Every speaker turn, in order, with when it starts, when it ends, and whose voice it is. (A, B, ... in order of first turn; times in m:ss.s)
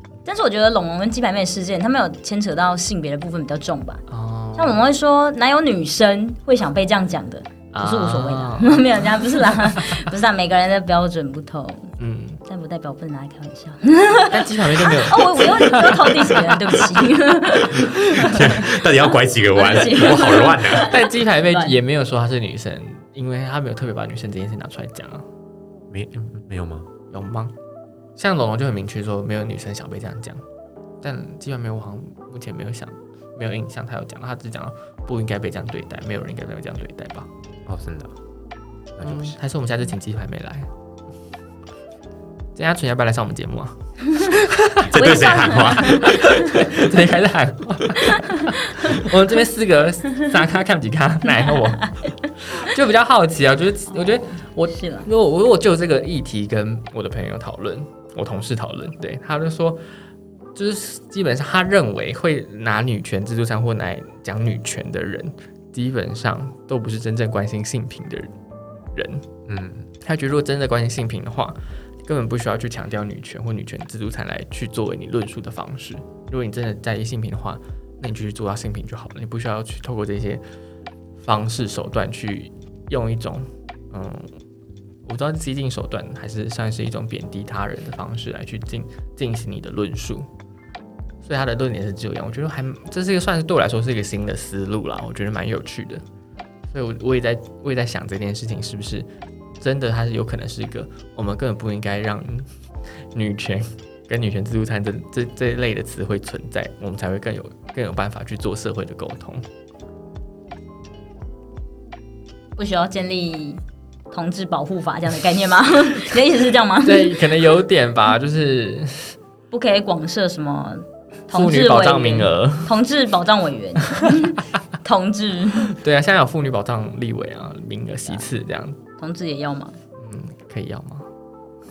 0:00.2-0:04.0 A
0:04.1-0:04.8 B
0:04.6-0:11.9 A
0:07.7-0:09.6 B
0:12.0-0:12.4 B
0:12.4-0:18.8 A
0:14.3-0:16.8 B
0:17.8-0:20.9 C
0:19.5-0:21.7 A
0:20.7-0:25.2 B
0:25.9-0:26.9 C
0:27.1-0:27.5 B
0:28.2-0:30.4 B
0:31.0-0:37.3 B
0:37.7-0:38.1 C
0:39.0-0:39.3 C
0:39.0-0:40.7 B
0:42.5-0:45.1 B
0:44.8-0:46.2 C
0:45.0-0:46.6 A
0:45.7-0:59.8 B
0:48.1-0:48.7 A
0:51.8-0:52.1 A
0:54.6-0:55.1 A
1:00.5-1:08.3 B
1:08.9-1:09.2 B
1:09.5-1:09.9 C
1:10.0-1:20.4 B
1:21.2-1:24.3 B
1:25.0-1:30.3 B
1:31.2-1:36.0 B
1:36.7-1:39.1 B
1:39.6-1:42.5 B
1:43.1-1:49.4 B
1:52.6-1:57.2 A
1:56.8-1:59.2 B
1:59.5-2:05.7 A
2:01.3-2:02.7 B
2:04.0-2:04.2 B
2:05.7-2:08.8 B
2:09.0-2:09.8 A
2:10.0-2:11.1 B